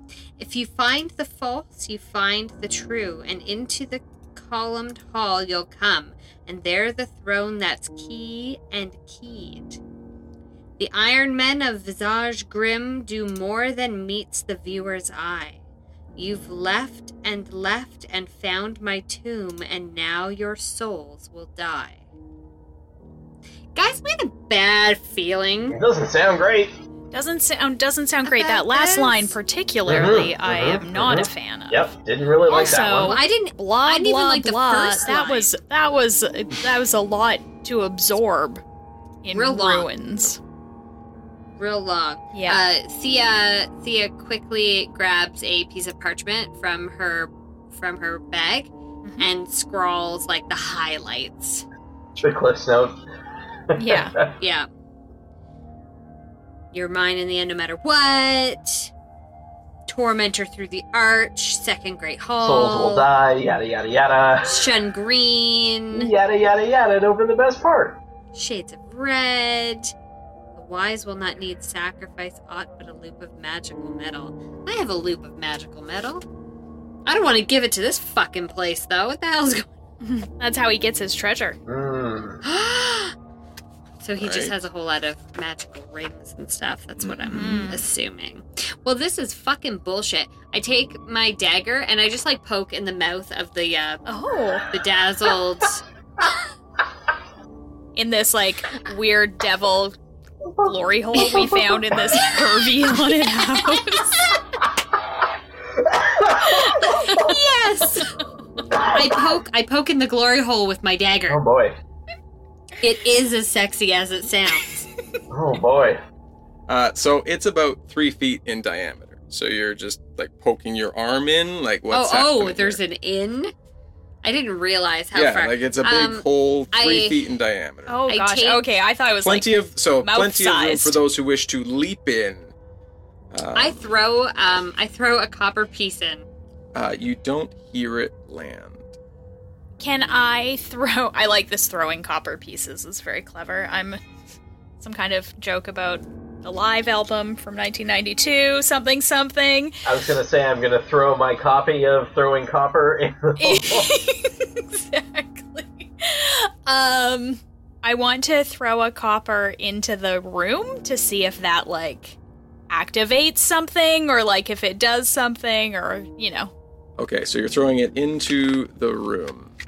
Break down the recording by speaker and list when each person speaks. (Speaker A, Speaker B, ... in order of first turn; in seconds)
Speaker A: 0.4-9.8, 10.8-15.6, 16.2-22.0, 23.8-25.8, 28.2-29.4, 32.5-35.5, 39.3-39.9, 41.6-51.6, 54.4-54.7, 56.7-58.9, 59.9-63.0, 64.4-66.1, 68.3-69.9, 70.5-76.2, 77.0-79.7, 82.4-83.1, 84.0-94.0, 94.7-95.8, 107.1-108.1, 108.9-111.4, 112.8-114.8, 121.9-123.5, 124.2-127.2, 128.1-128.7, 133.6-136.2
Speaker B: 25.7-26.7, 29.9-33.2, 52.2-53.0, 53.8-54.1, 62.4-64.7, 65.9-68.0, 81.7-82.4, 100.5-102.2, 105.8-107.2, 108.7-109.2, 111.3-111.7, 115.3-116.0, 149.9-153.9
Speaker C: 27.1-31.9, 32.5-38.6, 39.2-40.4, 42.3-42.6, 53.8-54.1, 80.0-81.6, 87.3-87.9, 94.1-94.7, 98.0-100.0, 100.7-104.0, 106.7-107.3, 127.9-131.0, 139.8-144.0, 144.8-149.8, 153.4-162.2, 162.7-166.5
Speaker D: 84.2-84.5, 87.0-87.6, 116.7-122.8, 125.1-128.0, 129.2-132.5, 133.3-133.9, 136.7-138.9, 167.0-169.5